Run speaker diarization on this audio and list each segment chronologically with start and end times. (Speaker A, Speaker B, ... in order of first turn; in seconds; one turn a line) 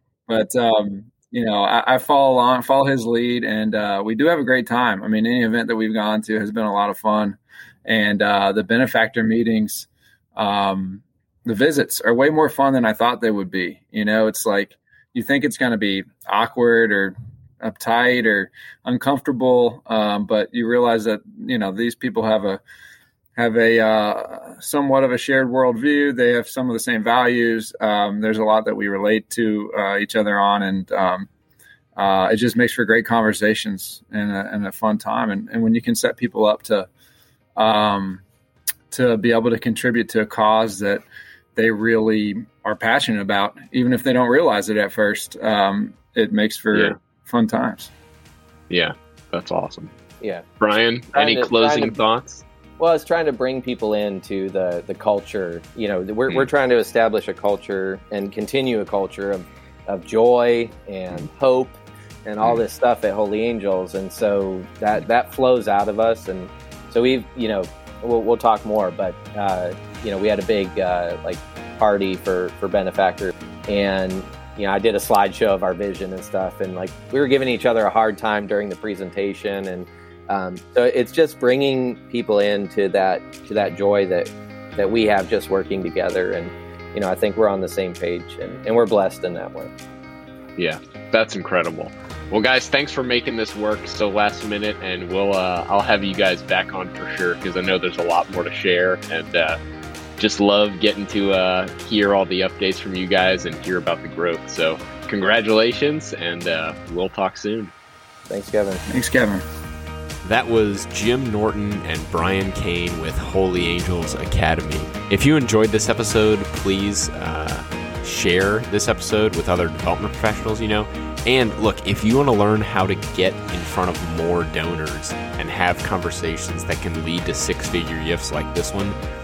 Speaker A: 0.3-22.6
Speaker A: 23.4-31.3
Speaker A: 31.9-36.9
Speaker A: 37.5-38.2
Speaker A: 38.9-47.9
Speaker B: 48.7-49.9
Speaker B: 50.6-52.4
Speaker C: 51.1-52.0
Speaker C: 52.8-89.7
Speaker B: 90.6-99.6
Speaker B: 100.2-107.7
Speaker C: 108.3-108.8
Speaker A: 108.9-109.4
Speaker B: 110.2-128.9